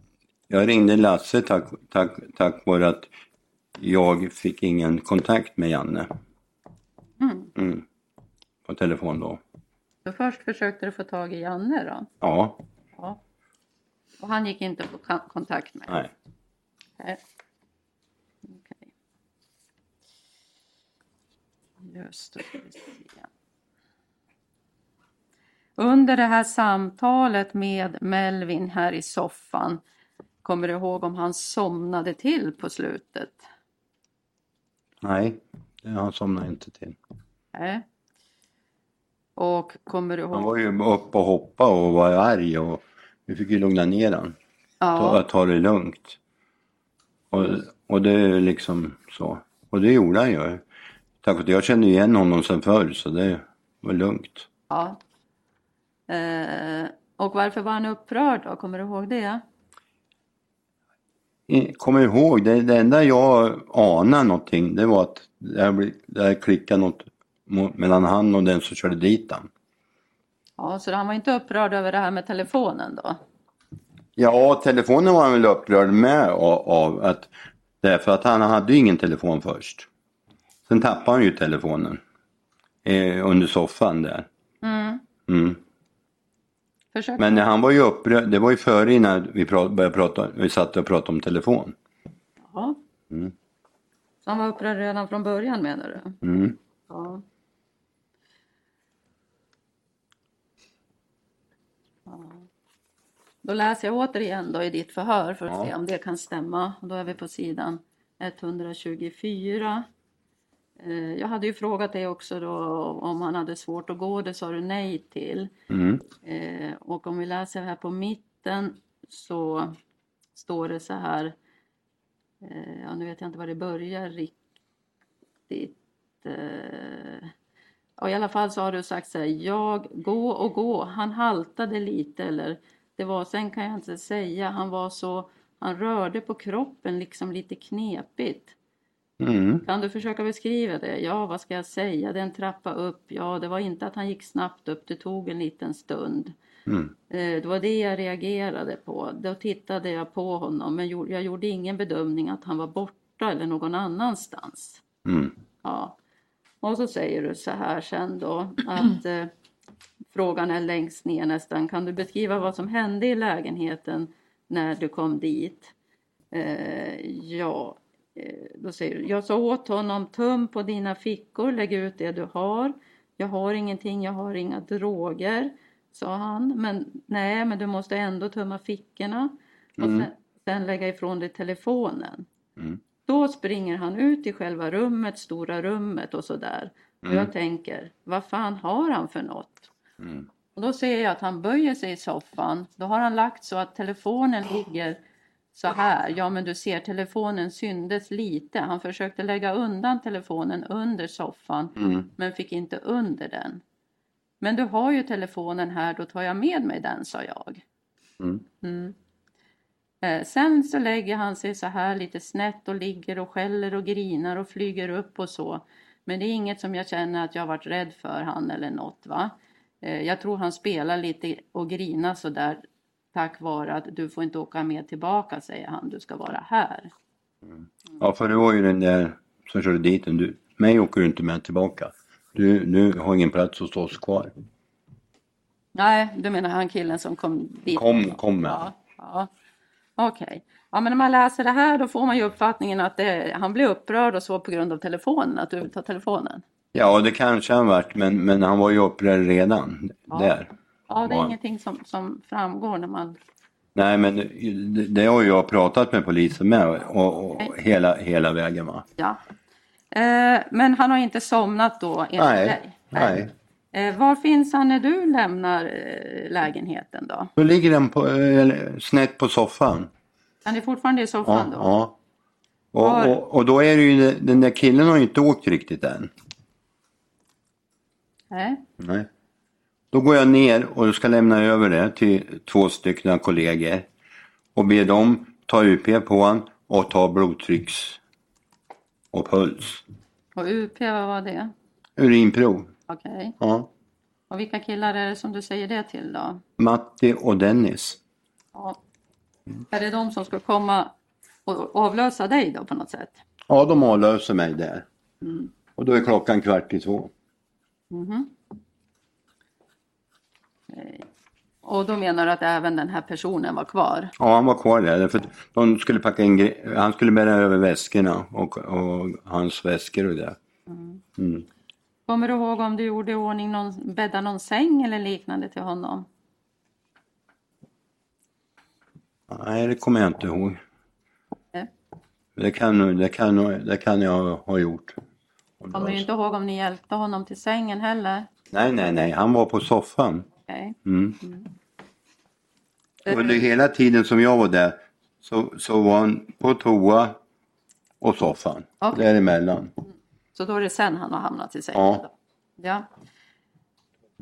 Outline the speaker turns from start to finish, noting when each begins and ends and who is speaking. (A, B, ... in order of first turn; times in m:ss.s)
0:00.5-0:03.1 A
0:03.8-0:06.1 A
0:07.2-0:07.5 B
0:07.6-0:07.8 A
0:08.6-0:09.4 A
0:10.0-0:12.1 B
0:12.2-0:12.6 A
0:14.2-0:16.0 B
0:18.4-0:18.8 B
0:21.8-0:23.2 B
0:25.8-0:29.8 B
0:30.4-0:33.4 B
0:35.0-0:37.0 A
0:37.5-0:37.8 B
0:39.4-0:40.5 B
0:40.3-0:44.4 A
0:44.8-0:45.2 B
0:45.0-0:46.2 A
0:47.3-0:50.6 A
0:51.2-0:54.5 A
0:54.7-0:55.0 B
0:56.1-0:59.4 B
1:01.5-1:09.5 A
1:10.6-1:13.2 B
1:14.2-1:19.9 A
1:20.7-1:22.0 A
1:22.8-1:24.3 A
1:24.6-1:25.0 B
1:25.3-1:25.6 A
1:26.9-1:27.3 B
1:27.2-1:31.7 A
1:32.4-1:32.8 B
1:34.2-1:36.2 B
1:36.2-1:36.6 A
1:36.9-1:37.2 B
1:42.1-1:42.4 B
1:43.4-1:49.9 B
1:50.8-1:55.5 B
1:55.7-1:56.0 A
1:56.2-1:59.8 B
2:00.4-2:01.3 B
2:02.4-2:04.3 B
2:05.5-2:07.3 B
2:08.0-2:18.5 B
2:19.2-2:19.6 A
2:19.6-2:26.3 B
2:26.7-2:26.9 A
2:27.1-2:34.8 B
2:35.0-2:35.3 A
2:35.6-2:36.0 B
2:36.6-2:39.3 B
2:40.1-2:45.7 B
2:46.3-3:02.3 B
2:59.8-3:00.1 A
3:03.0-3:09.7 B
3:07.0-3:07.3 A
3:10.0-3:10.3 A
3:10.5-3:15.0 B
3:15.5-3:23.6 B
3:21.8-3:22.1 A
3:24.4-3:27.6 B
3:28.6-3:28.9 B
3:30.0-3:42.6 B
3:43.1-3:46.9 B
3:47.5-3:54.3 A
3:55.7-3:59.3 B
3:57.7-3:58.6 A
4:00.0-4:06.4 B
4:06.7-4:10.5 A
4:10.1-4:10.3 B
4:10.9-4:13.2 B
4:11.0-4:11.3 A
4:13.7-4:18.8 A
4:19.9-4:23.2 B
4:22.2-4:23.3 A
4:23.7-4:27.3 B
4:27.4-4:29.9 A
4:30.4-4:31.7 B
4:31.2-4:31.9 A
4:32.7-4:36.1 A
4:32.8-4:33.2 B
4:38.3-4:38.6 B
4:38.8-4:39.1 A
4:39.9-4:43.9 A
4:44.5-4:48.0 A
4:49.1-4:49.8 A
4:50.3-4:51.5 B
4:52.0-4:52.7 A
4:52.9-4:53.3 B
4:53.4-4:53.7 A
4:54.3-4:56.4 B
4:56.6-4:58.0 A
4:58.5-4:58.8 B
4:59.7-5:00.9 B
5:01.4-5:03.2 B
5:03.5-5:04.8 A
5:05.2-5:05.5 B
5:05.8-5:07.1 A
5:07.9-5:08.3 B
5:10.7-5:11.0 B
5:11.6-5:14.1 B
5:14.2-5:20.4 A
5:20.7-5:21.0 B
5:21.2-5:21.4 A
5:22.1-5:26.1 B
5:29.3-5:30.6 A
5:32.4-5:35.0 A
5:35.6-5:36.0 A
5:35.7-5:38.3 B
5:38.5-5:40.3 A
5:40.5-5:41.4 B
5:40.8-5:41.2 A
5:43.0-5:43.4 B
5:43.0-5:47.2 A
5:48.0-5:49.7 A
5:50.3-5:52.9 B
5:51.7-5:52.0 A